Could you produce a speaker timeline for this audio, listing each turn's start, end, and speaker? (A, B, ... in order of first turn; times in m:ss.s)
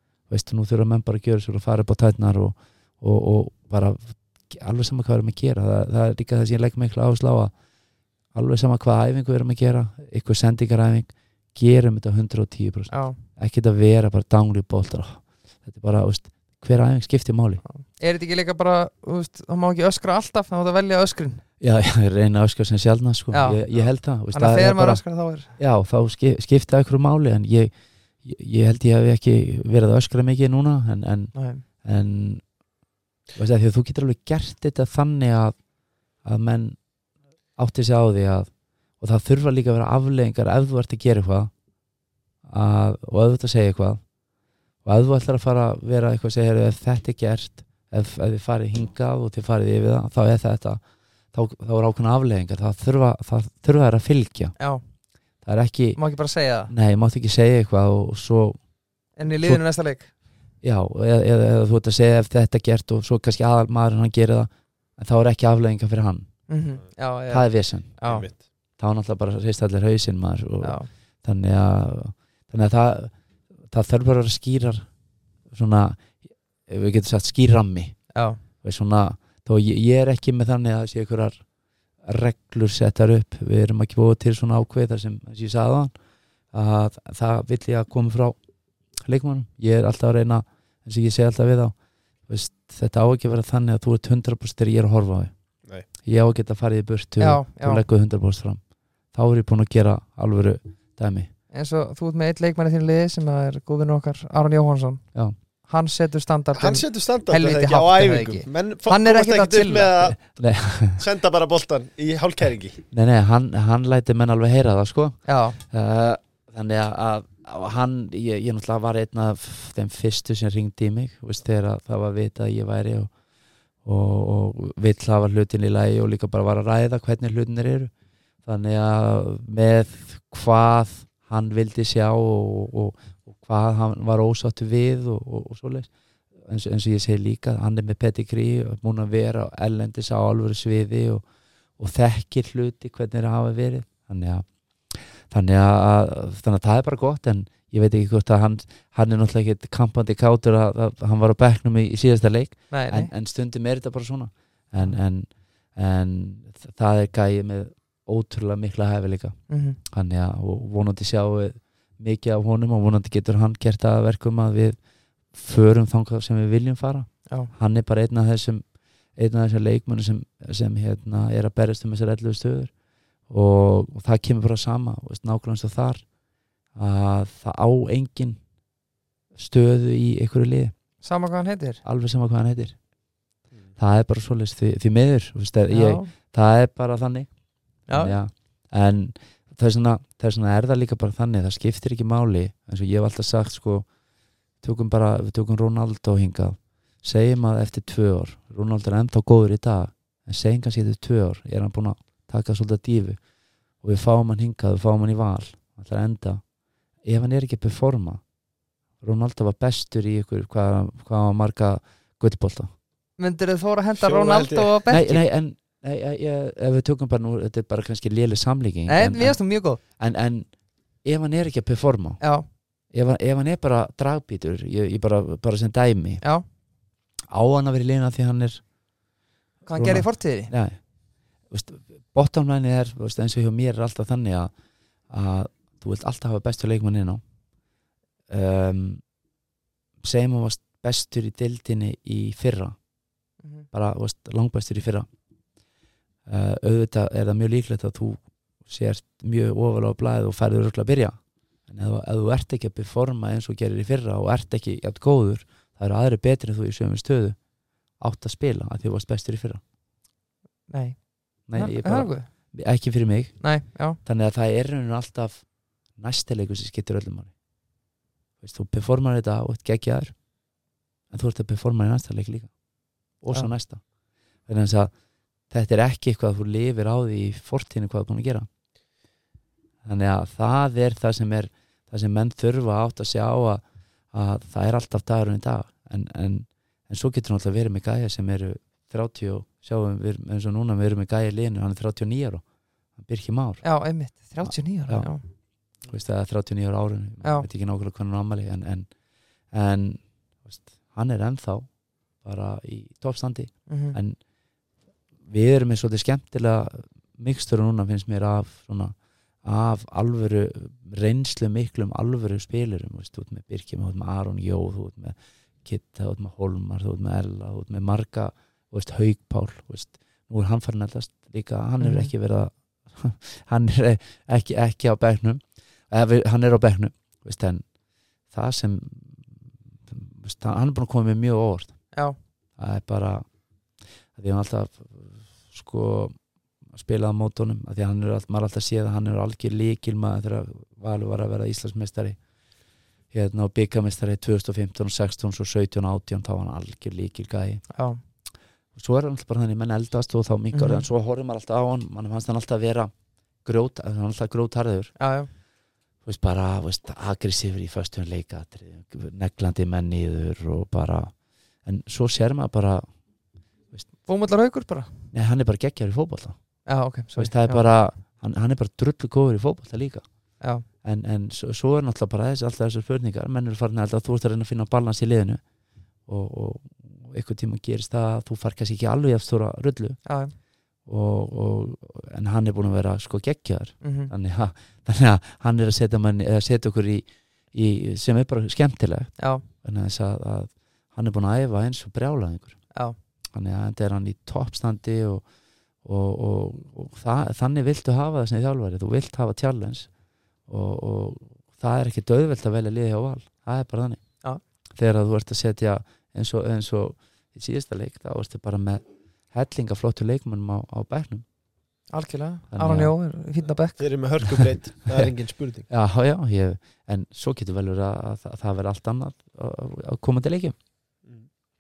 0:00.3-0:07.5 A
0:08.3-0:17.6 A
0:12.9-0:13.2 B
0:17.6-0:21.4 B
0:21.6-0:25.0 A
0:23.3-0:23.6 B
0:24.3-0:25.6 B
0:25.6-0:32.4 A
0:31.3-0:31.6 B
0:33.4-0:35.6 A
0:36.2-0:36.8 A
0:37.6-0:41.5 A
0:42.4-0:44.0 A
0:44.8-0:54.5 A
0:55.4-0:56.0 A
0:56.0-0:56.7 B
0:56.7-0:58.6 A
0:59.2-1:00.1 B
0:59.3-0:59.6 A
1:00.6-1:06.3 A
1:06.5-1:08.3 B
1:07.3-1:08.0 A
1:08.0-1:08.4 C
1:08.8-1:13.1 A
1:10.6-1:10.9 B
1:13.7-1:14.9 A
1:15.5-1:21.4 A
1:18.1-1:18.4 B
1:22.0-1:25.9 A
1:26.5-1:28.4 A
1:29.0-1:31.8 A
1:32.3-1:35.3 A
1:36.0-1:38.6 A
1:37.2-1:37.8 B
1:39.1-1:41.3 A
1:41.5-1:45.1 B
1:45.7-1:50.1 B
1:46.6-1:50.2 C
1:50.2-1:51.0 A
1:51.0-1:52.8 C
1:52.9-2:03.1 A
1:55.3-1:55.6 B
2:03.8-2:07.9 A
2:08.4-2:15.9 A
2:16.4-2:21.2 A
2:21.8-2:44.8 A
2:32.7-2:33.1 B
2:39.5-2:39.8 B
2:45.3-2:48.6 A
2:47.3-2:47.5 B
2:49.2-2:52.7 A
2:53.3-2:56.0 A
2:56.8-2:58.4 A
2:59.4-3:00.7 A
3:01.0-3:01.8 B
3:01.8-3:02.8 A
3:03.8-3:07.3 A
3:05.7-3:06.1 B
3:07.8-3:13.9 A
3:07.9-3:08.2 B
3:14.6-3:23.2 A
3:23.8-3:26.4 A
3:27.0-3:28.2 A
3:29.0-3:32.7 A
3:33.2-3:35.2 B
3:34.0-3:34.7 C
3:34.9-3:40.5 A
3:38.9-3:39.8 B
3:41.0-3:42.2 A
3:42.2-3:42.5 B
3:42.9-3:46.2 A
3:47.3-3:48.6 A
3:49.7-3:50.5 B
3:49.7-3:50.8 A
3:51.5-3:54.5 A
3:55.1-3:57.2 A
3:58.3-3:59.0 A
4:00.0-4:02.8 A
4:03.7-4:05.1 A
4:06.3-4:17.4 A
4:18.0-4:19.6 A
4:20.7-4:22.3 B
4:21.5-4:25.4 A
4:23.4-4:24.0 B
4:26.0-4:27.3 A
4:28.4-4:30.2 A
4:31.1-4:32.5 A
4:33.2-4:33.8 A
4:34.5-4:34.9 A
4:35.5-4:38.5 A
4:39.8-4:52.4 A
4:53.0-4:53.6 A
4:53.6-4:55.2 B
4:54.4-4:55.2 A
4:55.9-4:58.9 A
4:59.5-5:04.2 A
5:03.7-5:04.0 B
5:05.2-5:27.6 A
5:21.8-5:22.1 B
5:28.3-5:29.3 A
5:29.9-5:31.8 A
5:32.6-5:33.2 A
5:34.2-5:36.2 A
5:36.7-5:42.2 A
5:43.1-5:47.6 A
5:47.7-5:48.0 B
5:48.8-5:52.9 A
5:50.5-5:50.9 B
5:53.4-5:54.9 A
5:55.0-5:55.3 B
5:56.0-6:01.1 A
6:01.6-6:02.9 A
6:04.0-6:05.0 B
6:05.1-6:06.4 A
6:06.7-6:07.6 B
6:07.2-6:10.0 A
6:10.4-6:10.6 B
6:10.8-6:15.4 A
6:16.1-6:20.0 A
6:20.0-6:20.3 B
6:20.9-6:32.6 A
6:23.8-6:24.1 B
6:29.2-6:29.4 B
6:33.3-6:35.2 A
6:35.8-6:39.9 A
6:40.5-6:44.0 A
6:44.8-6:51.2 A
6:51.9-6:53.9 B
6:52.5-6:52.9 A
6:53.8-6:55.7 C
6:55.7-7:00.6 A